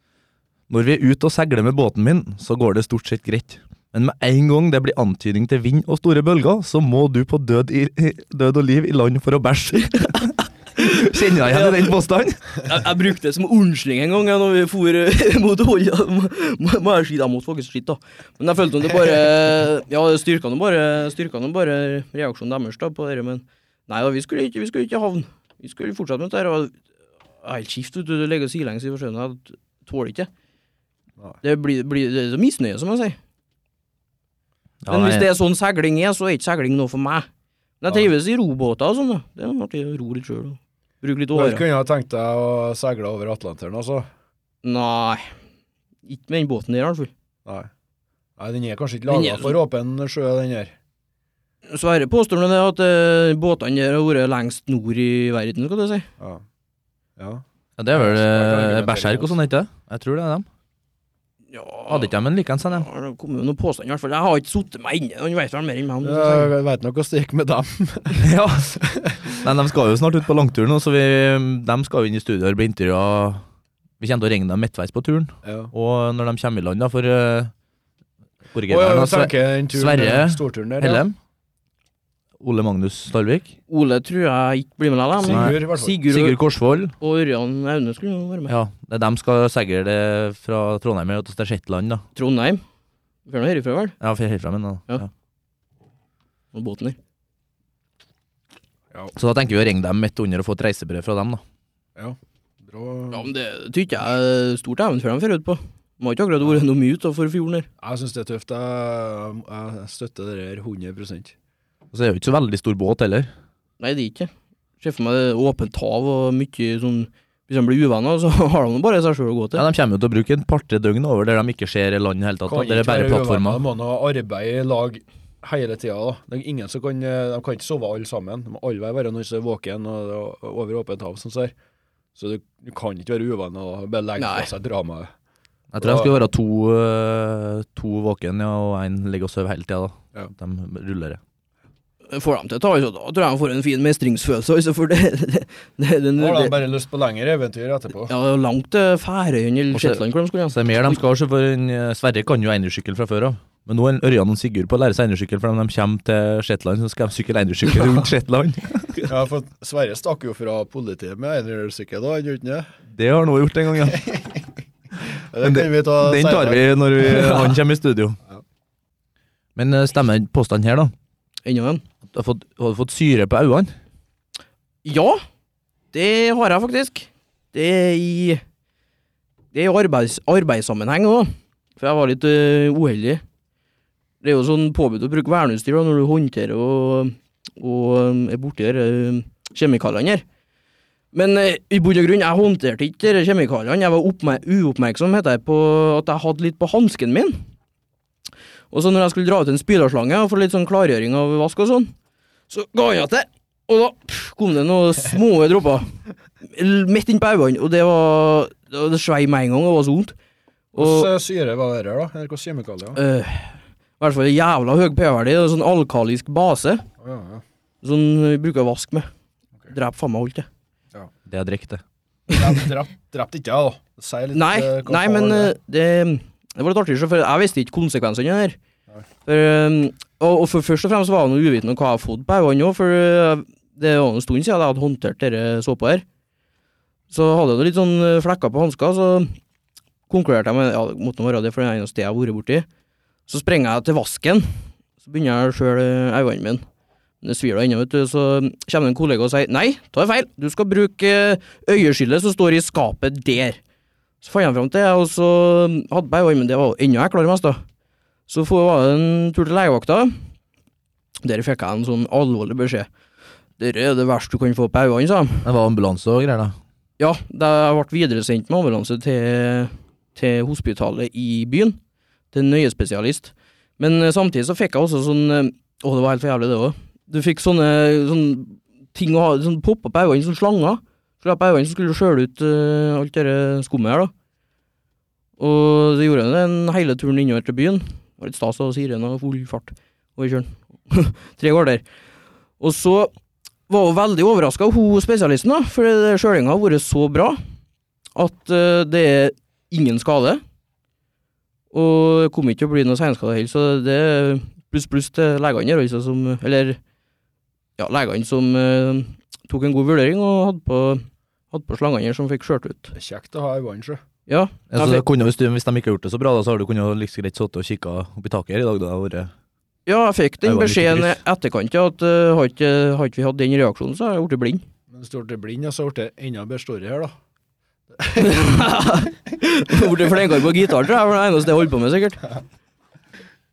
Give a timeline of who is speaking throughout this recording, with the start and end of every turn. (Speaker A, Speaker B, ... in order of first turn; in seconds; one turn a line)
Speaker A: 0.7-12.4
Speaker B: 10.9-11.9
Speaker B: 12.6-26.7
Speaker B: 27.4-30.3
Speaker B: 31.4-33.2
Speaker A: 34.8-35.3
Speaker B: 34.9-37.3
Speaker B: 37.8-41.6
Speaker C: 41.3-44.1
Speaker B: 44.6-45.2
Speaker B: 46.0-47.1
Speaker C: 48.4-50.7
Speaker B: 49.1-49.6
Speaker B: 51.7-56.1
Speaker C: 57.2-57.4
Speaker A: 57.8-60.5
Speaker C: 57.9-59.3
Speaker B: 61.5-62.1
Speaker A: 61.9-62.9
Speaker B: 62.7-66.5
Speaker C: 66.0-69.4
Speaker A: 68.2-68.8
Speaker A: 69.4-73.4
Speaker A: 74.0-77.5
Speaker C: 75.4-75.7
Speaker A: 78.5-81.1
Speaker C: 78.7-81.0
Speaker A: 82.4-83.5
Speaker B: 83.7-86.3
Speaker C: 85.2-86.0
Speaker A: 85.3-86.9
Speaker B: 87.0-88.5
Speaker A: 88.5-92.0
Speaker B: 92.2-92.6
Speaker B: 93.3-94.0
Speaker A: 94.0-95.1
Speaker B: 96.5-97.0
Speaker A: 99.1-101.4
Speaker C: 102.0-103.3
Speaker B: 103.1-107.7
Speaker C: 107.8-111.3
Speaker A: 111.9-113.3
Speaker B: 113.8-114.3
Speaker B: 114.8-119.6
Speaker A: 119.5-123.6
Speaker C: 122.5-131.5
Speaker C: 132.2-135.1
Speaker B: 134.2-134.5
Speaker A: 135.7-141.2
Speaker C: 135.8-136.1
Speaker B: 142.1-146.6
Speaker C: 146.2-148.1
Speaker B: 148.1-151.0
Speaker A: 149.7-158.9
Speaker C: 159.1-162.7
Speaker A: 162.9-164.1
Speaker C: 163.9-164.4
Speaker C: 165.0-166.7
Speaker A: 165.4-168.2
Speaker B: 167.0-167.6
Speaker A: 169.6-170.9
Speaker B: 171.4-171.8
Speaker A: 172.1-173.7
Speaker B: 174.8-175.2
Speaker B: 175.9-178.4
Speaker B: 179.5-183.2
Speaker B: 184.2-190.2
Speaker B: 191.1-197.4
Speaker B: 198.7-201.9
Speaker B: 202.5-205.9
Speaker B: 206.5-210.1
Speaker B: 210.7-211.1
Speaker C: 210.8-213.0
Speaker B: 212.9-216.8
Speaker C: 217.0-217.4
Speaker B: 217.8-219.1
Speaker B: 219.7-220.4
Speaker A: 221.3-221.8
Speaker C: 222.3-225.5
Speaker B: 224.3-228.6
Speaker B: 229.2-236.0
Speaker B: 237.1-239.3
Speaker B: 240.1-242.7
Speaker B: 243.3-244.4
Speaker B: 245.0-246.6
Speaker B: 247.2-253.6
Speaker B: 254.2-257.6
Speaker B: 258.3-260.1
Speaker B: 261.2-262.9
Speaker B: 263.6-265.4
Speaker A: 265.4-266.6
Speaker B: 267.0-271.8
Speaker B: 272.3-284.1
Speaker B: 285.4-291.8
Speaker B: 292.6-293.1
Speaker B: 293.7-297.4
Speaker B: 298.1-300.4
Speaker B: 301.7-306.8
Speaker B: 307.8-312.9
Speaker C: 312.9-314.0
Speaker B: 314.3-315.0
Speaker A: 314.7-319.3
Speaker B: 319.9-324.6
Speaker A: 320.4-321.2
Speaker C: 324.9-327.1
Speaker C: 327.9-328.5
Speaker B: 328.1-332.2